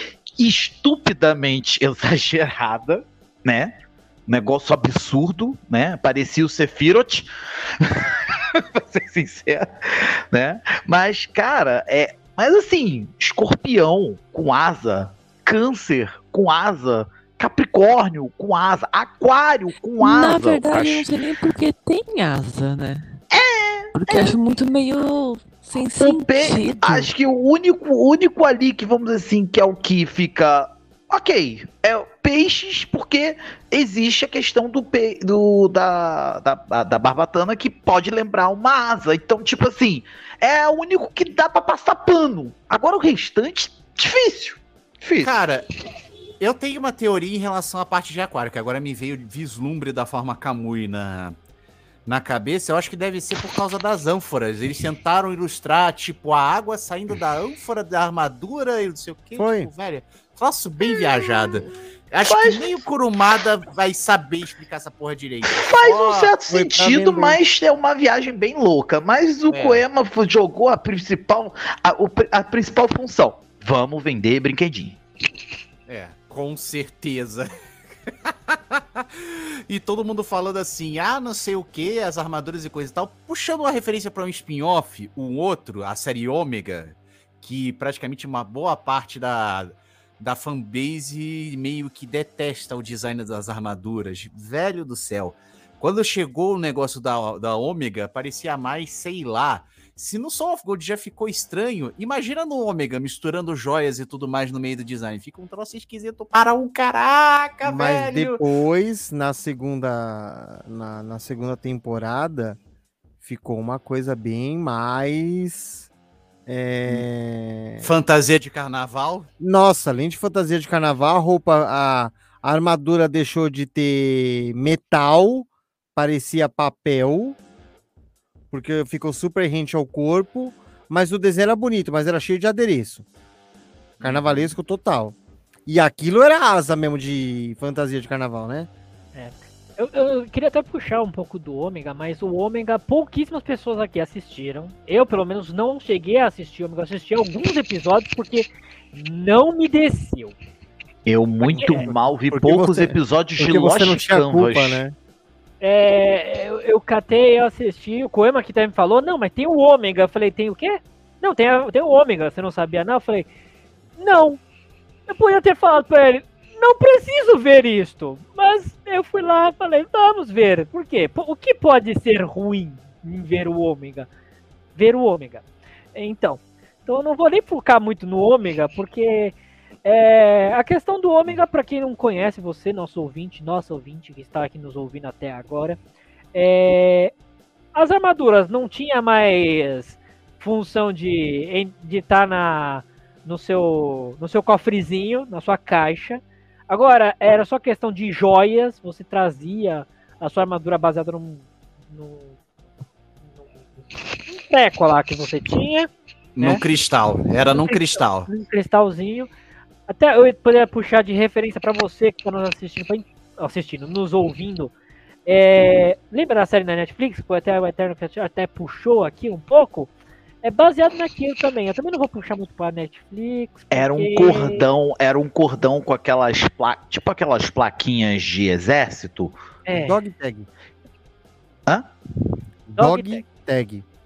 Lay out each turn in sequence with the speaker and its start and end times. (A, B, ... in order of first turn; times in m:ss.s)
0:00.4-0:03.7 A
0:04.3-0:07.3 A
0:07.8-0:21.1 A
0:20.0-0:23.1 B
0:23.3-0:24.4 A
0:23.9-0:27.1 B
0:26.0-0:45.3 A
0:45.2-0:45.7 C
0:46.4-0:51.3 C
0:52.0-1:06.3 C
0:59.4-0:59.7 D
1:00.9-1:01.5 A
1:02.2-1:02.7 A
1:05.5-1:15.0 A
1:06.5-1:07.4 D
1:09.5-1:09.8 C
1:15.9-1:17.5 C
1:18.1-1:48.4 C
1:47.6-1:52.6 D
1:53.2-1:55.9 D
1:56.5-1:57.8 D
1:57.8-1:59.3 C
1:59.4-2:07.4 D
2:08.5-2:13.0 D
2:14.0-2:14.5 C
2:14.0-2:18.7 D
2:19.1-2:30.3 E
2:31.0-2:34.8 A
2:31.4-2:32.0 E
2:32.3-2:35.0 D
2:35.6-2:43.3 E
2:44.0-2:44.4 E
2:45.1-2:54.1 E
2:54.8-2:55.4 E
2:55.9-3:05.8 E
3:06.3-3:07.1 E
3:07.7-3:22.4 E
3:23.2-3:26.6 E
3:26.4-3:28.3 C
3:27.5-3:29.3 E
3:29.9-3:34.7 E
3:35.2-3:39.9 E
3:40.4-3:44.6 E
3:43.7-3:49.3 A
3:49.6-3:50.0 E
3:49.8-3:50.5 D
3:52.7-3:53.8 D
3:52.8-3:53.2 E